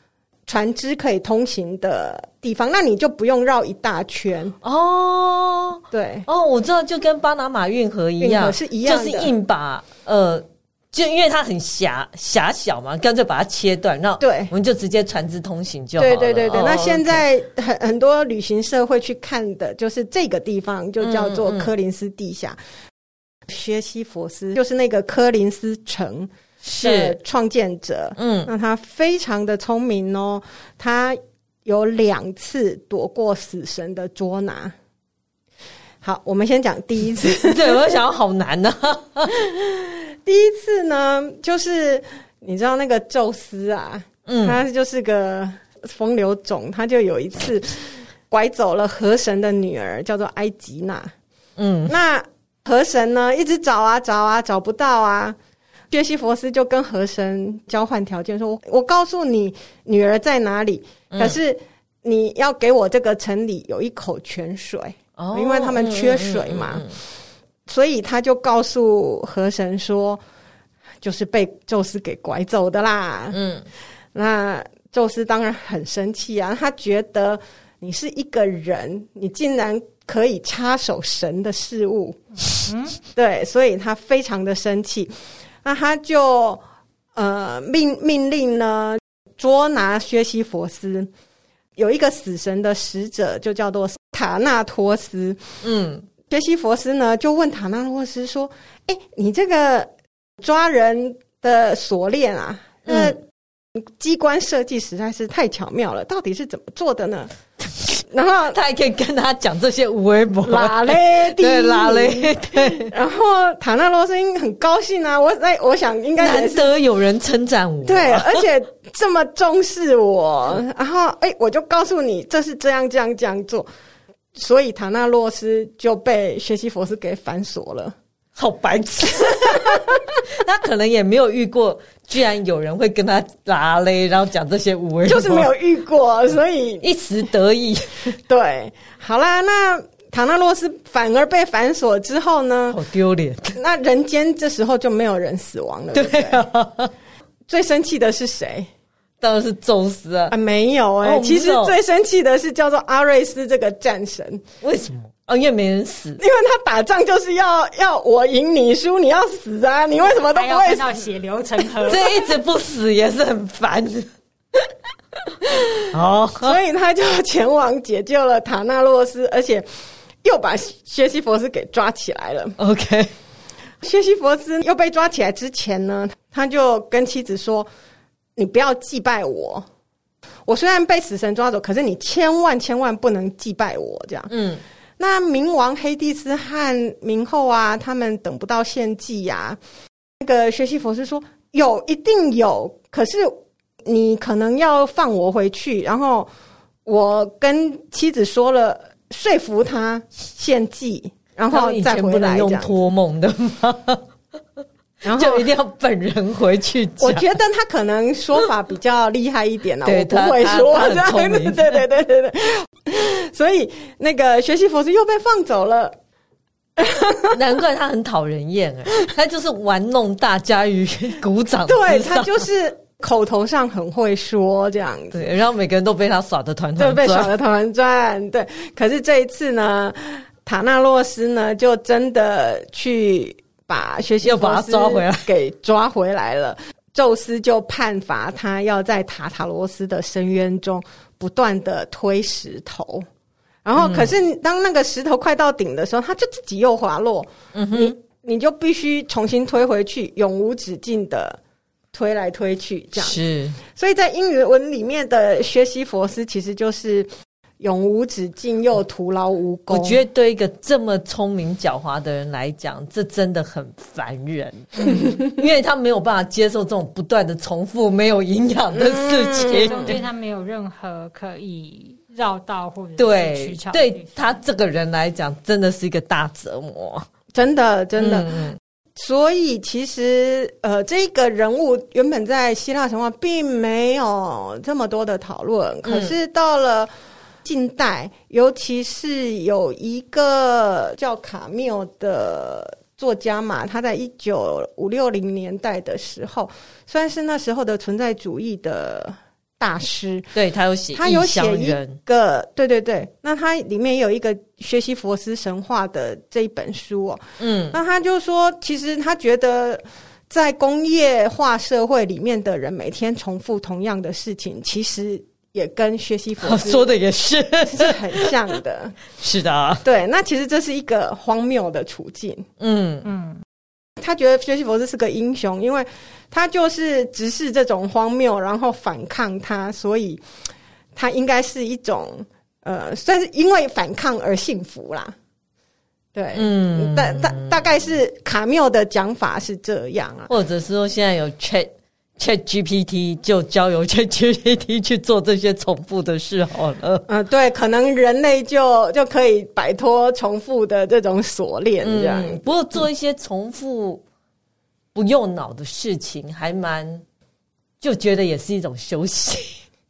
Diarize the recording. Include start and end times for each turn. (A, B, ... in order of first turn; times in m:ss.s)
0:00.5-0:04.6 A
0:04.6-0:17.2 B
0:05.9-0:06.3 A
0:08.2-0:09.3 A
0:14.2-0:14.5 A
0:16.0-0:22.6 A
0:21.0-0:21.7 B
0:23.5-0:34.7 A
0:26.6-0:27.2 B
0:28.2-0:28.5 B
0:36.0-0:38.0 A
0:37.2-0:39.3 B
0:39.3-0:51.1 A
0:44.2-0:44.6 B
0:51.6-0:51.9 B
0:51.9-0:55.4 A
0:55.9-1:06.9 A
1:01.1-1:01.4 B
1:05.2-1:06.9 B
1:07.7-1:10.2 A
1:11.0-1:13.4 A
1:13.3-1:13.6 B
1:14.1-1:22.2 A
1:22.5-1:23.0 C
1:23.1-1:25.1 A
1:25.6-1:26.6 A
1:27.2-1:31.1 A
1:31.8-1:35.4 A
1:35.6-1:36.0 B
1:36.3-1:43.2 A
1:42.9-1:43.2 B
1:43.8-1:47.3 A
1:48.1-1:48.6 A
1:48.5-1:52.9 B
1:50.4-1:56.7 A
1:56.2-1:58.4 B
1:57.8-2:03.7 A
2:04.3-2:07.9 A
2:08.4-2:15.5 B
2:09.2-2:10.0 A
2:15.0-2:16.9 A
2:16.8-2:18.1 B
2:18.2-2:22.8 A
2:22.7-2:23.6 B
2:23.5-2:26.4 A
2:25.9-2:26.9 B
2:27.5-2:28.7 A
2:29.2-2:30.3 B
2:30.3-2:34.4 A
2:31.0-2:31.7 B
2:34.6-2:36.2 B
2:36.2-2:41.0 A
2:40.3-2:42.2 C
2:41.8-2:44.1 B
2:45.4-2:45.7 A
2:45.9-2:46.6 B
2:46.4-2:49.7 A
2:50.2-2:52.6 A
2:52.6-2:53.1 B
2:53.8-2:57.7 A
2:58.4-2:59.6 A
3:00.5-3:04.3 A
3:04.3-3:04.6 B
3:05.0-3:09.6 A
3:10.2-3:16.3 A
3:16.8-3:22.7 A
3:21.5-3:24.0 B
3:25.0-3:25.5 A
3:25.1-3:27.2 B
3:27.0-3:36.0 A
3:29.8-3:31.8 B
3:36.8-3:37.4 A
3:37.3-3:42.4 B
3:41.6-3:45.2 A
3:45.1-3:47.3 B
3:46.8-4:03.1 A
3:54.2-3:55.3 B
4:03.6-4:11.4 A
4:03.8-4:04.1 B
4:07.5-4:07.9 B
4:11.9-4:20.0 A
4:13.0-4:13.6 B
4:19.7-4:30.0 B
4:24.8-4:25.3 A
4:28.7-4:30.0 A
4:29.4-4:34.4 C
4:33.0-4:37.0 B
4:37.3-4:38.3 A
4:38.0-4:38.6 B
4:39.0-4:46.9 A
4:45.8-4:46.1 B
4:47.4-5:00.3 A
5:00.3-5:02.0 B
5:01.0-5:16.9 A
5:07.4-5:07.8 B
5:16.4-5:18.3 B
5:17.6-5:19.0 A
5:19.2-5:19.8 B
5:19.8-5:22.5 A
5:22.6-5:23.1 B
5:23.0-5:23.4 C
5:24.0-5:30.2 A
5:31.0-5:35.1 A
5:36.1-5:40.3 A
5:36.3-5:37.5 B
5:40.3-5:47.0 B
5:47.1-5:52.8 A
5:51.8-5:54.0 B
5:54.9-5:57.0 B
5:57.8-5:59.6 B